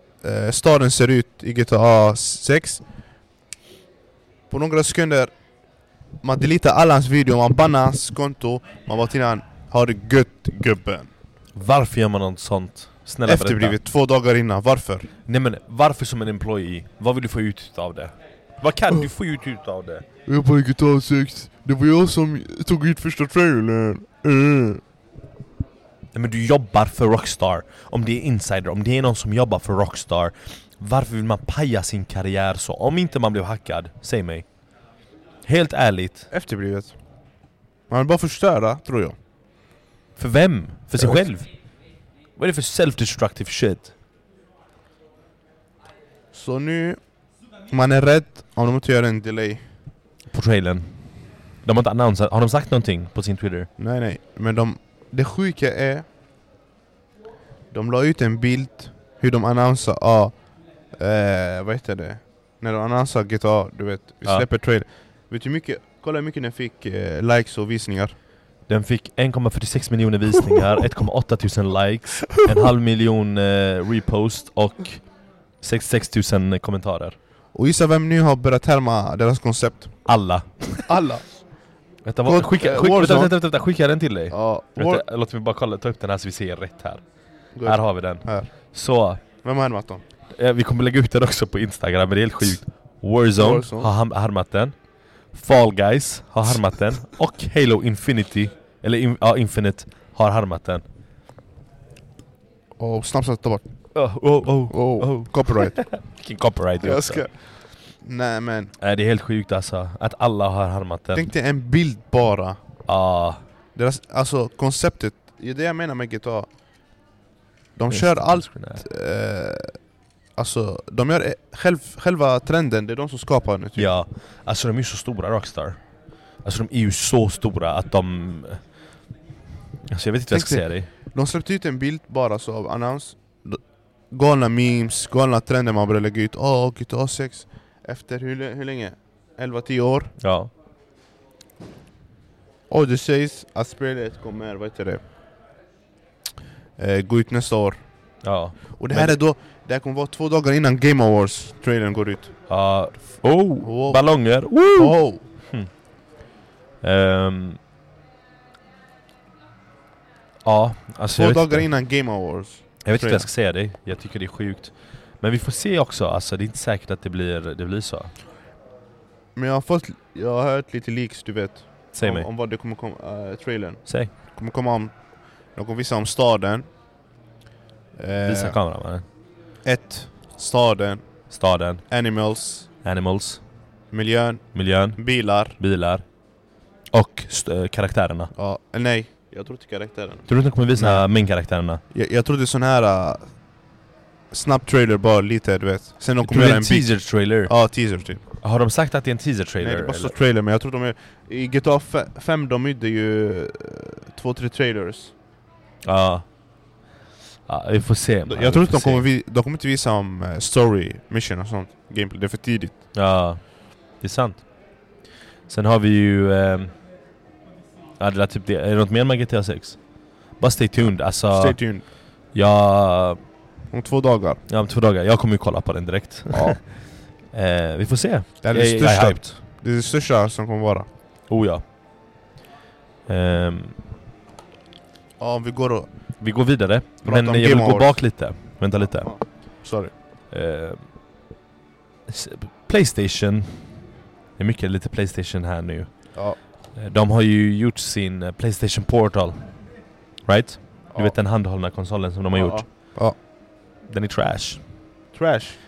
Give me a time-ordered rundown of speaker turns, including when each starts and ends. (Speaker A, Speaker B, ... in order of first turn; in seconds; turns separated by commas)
Speaker A: 0.2-2.8, Speaker A: 4.5-5.3, Speaker A: 6.2-11.1, Speaker B: 11.5-13.8, Speaker A: 13.2-15.1, Speaker B: 15.2-20.0, Speaker A: 20.2-24.8, Speaker B: 26.1-34.5, Speaker B: 35.4-36.3, Speaker A: 36.3-37.0, Speaker A: 37.9-39.1, Speaker B: 40.1-41.5, Speaker B: 42.4-43.9, Speaker A: 46.3-47.0, Speaker A: 47.7-49.6, Speaker B: 50.3-51.0, Speaker B: 51.6-53.7, Speaker A: 53.8-56.0, Speaker A: 57.7-60.3, Speaker A: 61.0-68.1, Speaker B: 68.7-75.1, Speaker B: 75.6-77.2, Speaker A: 77.5-80.0, Speaker B: 80.0-80.9, Speaker A: 80.9-81.3, Speaker B: 82.0-87.0, Speaker A: 82.2-83.3, Speaker A: 84.3-85.0, Speaker A: 87.5-88.5, Speaker B: 87.6-89.2, Speaker A: 89.4-90.0, Speaker B: 90.3-94.7, Speaker A: 93.4-93.9, Speaker B: 95.3-100.8, Speaker A: 102.8-103.6, Speaker B: 103.9-107.3, Speaker A: 104.7-105.8, Speaker A: 106.8-108.7, Speaker B: 108.8-111.3, Speaker A: 111.1-112.6, Speaker B: 112.8-113.4, Speaker A: 113.7-116.5, Speaker A: 117.8-119.8, Speaker B: 117.9-118.8, Speaker A: 120.3-123.9, Speaker B: 123.8-125.8, Speaker B: 126.4-128.6, Speaker B: 129.9-130.9, Speaker A: 130.3-133.6, Speaker A: 134.1-140.1, Speaker B: 140.2-140.5, Speaker A: 142.7-145.0, Speaker A: 146.8-147.8, Speaker B: 148.2-149.1, Speaker A: 148.8-152.3, Speaker B: 152.5-155.7, Speaker A: 153.6-155.2, Speaker B: 156.8-157.6, Speaker B: 160.4-161.7, Speaker A: 161.1-163.3, Speaker B: 162.8-168.1, Speaker A: 169.3-176.7, Speaker B: 171.9-172.3, Speaker B: 173.9-174.1, Speaker A: 177.9-178.6, Speaker B: 178.2-179.1, Speaker A: 179.6-181.0, Speaker B: 181.3-181.8, Speaker A: 181.9-182.7, Speaker B: 182.8-183.4, Speaker A: 183.9-185.6, Speaker B: 184.5-185.0, Speaker B: 185.6-186.0, Speaker B: 186.9-188.3, Speaker A: 188.3-191.1, Speaker B: 190.3-191.8, Speaker A: 191.9-193.3, Speaker A: 194.3-198.2, Speaker B: 196.2-197.5, Speaker B: 198.4-200.1, Speaker A: 199.6-205.1, Speaker B: 205.8-206.3, Speaker B: 207.5-209.0, Speaker A: 208.2-212.8, Speaker B: 212.9-214.5, Speaker B: 215.5-216.7, Speaker B: 218.0-219.8, Speaker B: 220.4-221.6, Speaker A: 221.3-221.8, Speaker B: 222.3-223.2, Speaker A: 223.7-224.4, Speaker B: 224.5-226.8, Speaker A: 226.3-226.6, Speaker B: 227.3-229.3, Speaker A: 228.4-230.9, Speaker B: 231.3-231.6, Speaker B: 233.1-233.8, Speaker A: 235.2-235.9, Speaker B: 236.2-239.1, Speaker A: 237.0-238.0, Speaker A: 238.9-239.9, Speaker B: 240.3-240.9, Speaker B: 242.1-243.7, Speaker B: 244.4-245.9, Speaker B: 246.7-249.4, Speaker B: 250.2-252.6, Speaker A: 252.3-253.2, Speaker B: 253.9-254.6, Speaker A: 255.1-255.6